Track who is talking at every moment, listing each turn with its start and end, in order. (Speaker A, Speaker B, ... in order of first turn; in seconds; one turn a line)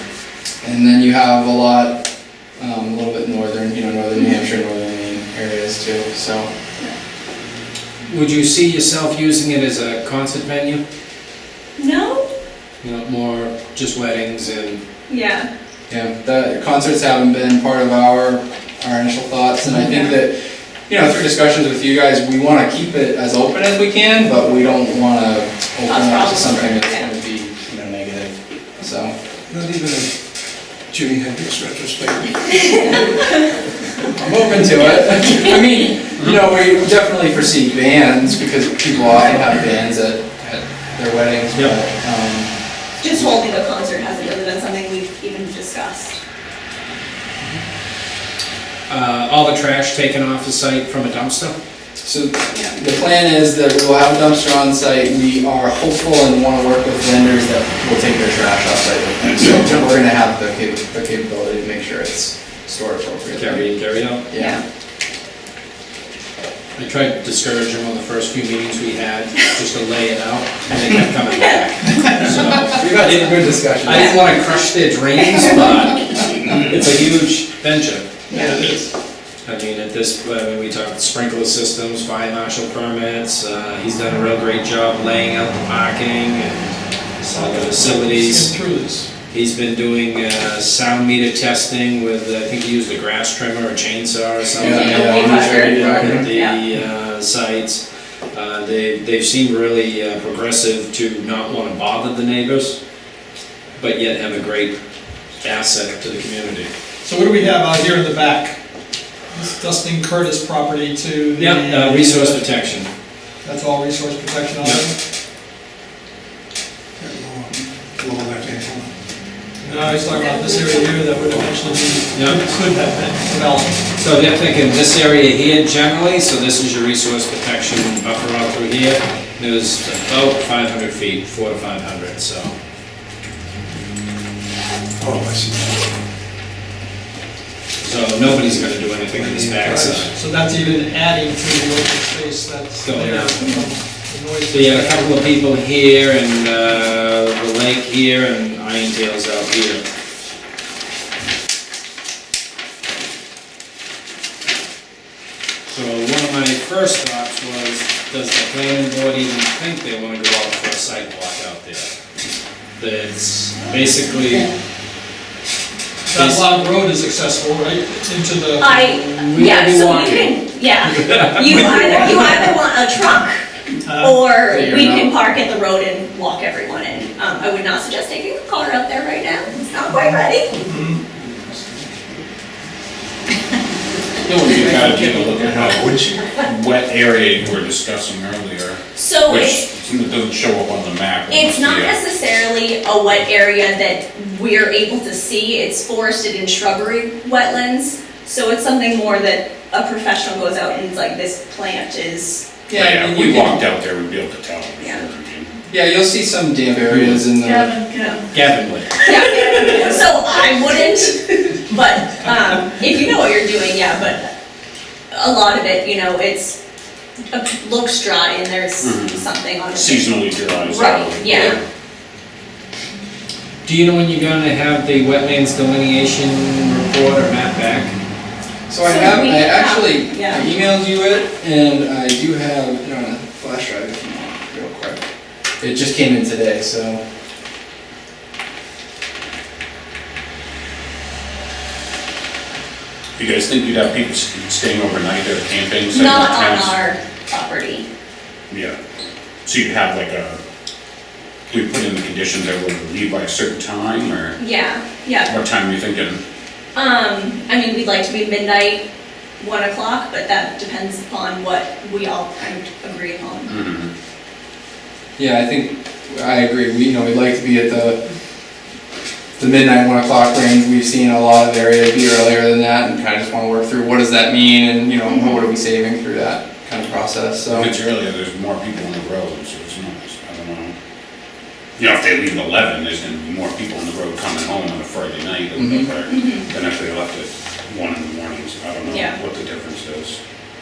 Speaker A: 0.6-2.0
Speaker A: 2.6-6.5
Speaker B: 8.1-10.8
Speaker C: 11.8-12.3
Speaker B: 12.8-14.8
Speaker C: 15.1-15.5
Speaker A: 15.9-20.4
Speaker C: 19.8-20.1
Speaker A: 20.9-28.3
Speaker C: 25.9-27.1
Speaker A: 28.8-29.1
Speaker D: 29.5-30.1
Speaker D: 30.9-33.0
Speaker C: 32.9-33.4
Speaker A: 34.2-42.5
Speaker C: 35.2-35.5
Speaker C: 43.0-46.2
Speaker B: 48.9-51.5
Speaker A: 52.0-63.7
Speaker B: 63.4-64.2
Speaker A: 64.3-64.6
Speaker C: 64.3-64.6
Speaker B: 66.8-78.1
Speaker C: 71.3-71.6
Speaker A: 72.6-74.2
Speaker E: 78.3-78.8
Speaker B: 79.5-88.5
Speaker E: 87.3-89.1
Speaker B: 89.3-97.8
Speaker C: 94.5-96.6
Speaker A: 94.6-96.3
Speaker B: 98.3-102.8
Speaker B: 103.8-104.8
Speaker B: 105.4-106.7
Speaker E: 107.0-108.6
Speaker E: 109.3-112.5
Speaker B: 111.4-112.9
Speaker E: 113.4-115.0
Speaker D: 117.0-118.9
Speaker E: 119.6-123.8
Speaker C: 120.1-121.1
Speaker B: 122.1-122.4
Speaker B: 124.0-132.5
Speaker D: 135.0-135.9
Speaker B: 137.8-140.1
Speaker D: 139.1-140.1
Speaker E: 140.0-145.3
Speaker B: 142.8-143.6
Speaker B: 144.5-149.8
Speaker B: 155.7-161.9
Speaker B: 162.8-164.5
Speaker E: 166.1-168.8
Speaker B: 166.1-166.4
Speaker C: 168.6-173.4
Speaker B: 168.8-170.4
Speaker B: 170.9-172.1
Speaker E: 173.8-174.3
Speaker C: 174.0-180.6
Speaker A: 174.5-175.2
Speaker E: 180.7-181.0
Speaker D: 181.1-182.1
Speaker F: 184.3-192.0
Speaker D: 184.7-186.3
Speaker C: 189.0-189.7
Speaker C: 191.3-202.7
Speaker A: 202.7-203.6
Speaker F: 202.7-205.5
Speaker A: 205.7-207.8
Speaker B: 206.9-207.2
Speaker C: 207.9-208.2
Speaker B: 208.3-209.1
Speaker C: 209.0-214.3
Speaker C: 215.1-216.6
Speaker C: 217.3-221.6
Speaker F: 218.8-221.6
Speaker B: 223.7-227.9
Speaker A: 228.7-235.0
Speaker C: 228.8-230.5
Speaker A: 235.6-237.0
Speaker F: 243.2-246.8
Speaker C: 245.9-247.8
Speaker F: 248.5-248.8
Speaker F: 249.4-250.4
Speaker F: 251.5-254.4
Speaker C: 254.4-255.3
Speaker F: 255.3-256.2
Speaker C: 256.8-258.8
Speaker C: 259.4-263.5
Speaker F: 263.5-263.9
Speaker A: 265.2-268.0
Speaker A: 269.4-277.7
Speaker C: 275.1-275.4
Speaker F: 277.5-280.7
Speaker F: 281.8-290.2
Speaker A: 285.6-285.9
Speaker C: 286.1-286.4
Speaker C: 288.9-289.1